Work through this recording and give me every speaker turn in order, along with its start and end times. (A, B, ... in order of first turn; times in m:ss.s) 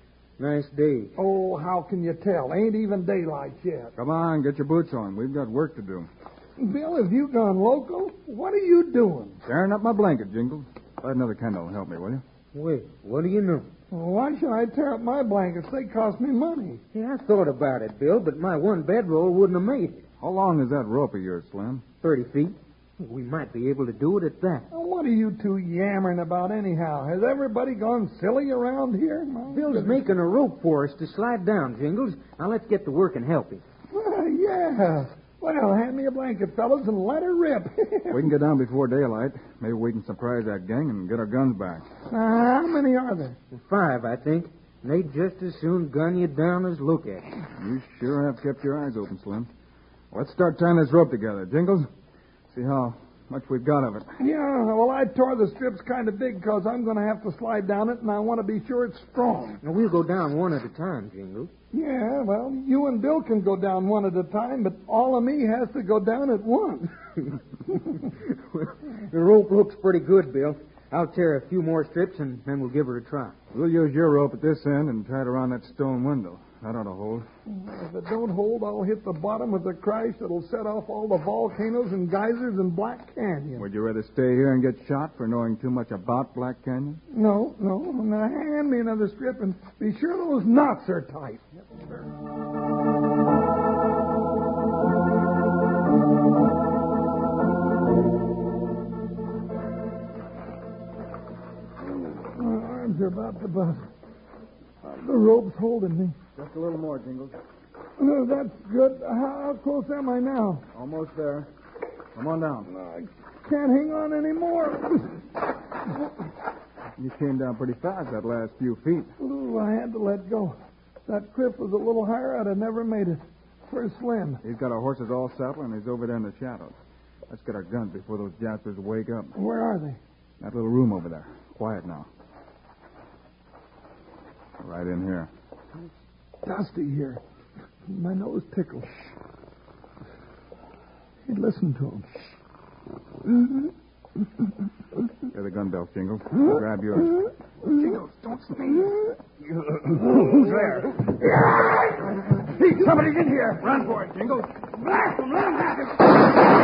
0:00.4-0:01.1 A
0:01.2-0:03.9 B
0:04.0-0:06.1 C
0:06.6-0:09.4 B
0:09.4-0:12.2 C
0:12.5-0:13.7 A
0:13.9-0:16.8 B
0:16.9-0:20.0 A
0:20.2-0:21.8 C
0:22.0-0:24.6 A
0:24.7-0:30.0 B
0:29.5-0:33.6 A
0:33.9-0:38.2 B
0:38.1-0:41.8 C
0:42.1-0:43.4 B
0:43.5-0:47.3 A
0:47.6-0:49.5 C
0:50.1-0:51.9 C
0:52.5-0:54.1 C
0:54.2-0:59.6 B
0:59.6-1:01.5 A
1:01.7-1:06.9 B
1:08.6-1:13.4 A
1:13.5-1:17.2 C
1:17.5-1:23.6 B
1:23.6-1:27.0 C
1:27.1-1:32.0 B
1:42.4-1:43.9 B
1:44.8-1:46.2 B
1:46.4-1:47.3 C
1:48.0-1:50.6 B
1:50.7-1:51.5 C
1:52.1-1:52.7 C
1:52.7-1:55.2 B
1:57.0-1:59.1 C
1:59.2-2:00.5 B
2:01.1-2:04.4 B
2:04.4-2:06.7 C
2:07.3-2:09.3 C
2:09.3-2:10.0 B
2:10.4-2:12.1 C
2:14.6-2:15.3 C
2:16.4-2:17.2 B
2:17.9-2:19.1 B
2:21.3-2:22.2 B
2:25.3-2:29.0 C
2:29.8-2:30.5 C
2:30.0-2:32.0 A
2:32.5-2:33.6 A
2:33.6-2:34.6 C
2:34.8-2:36.0 A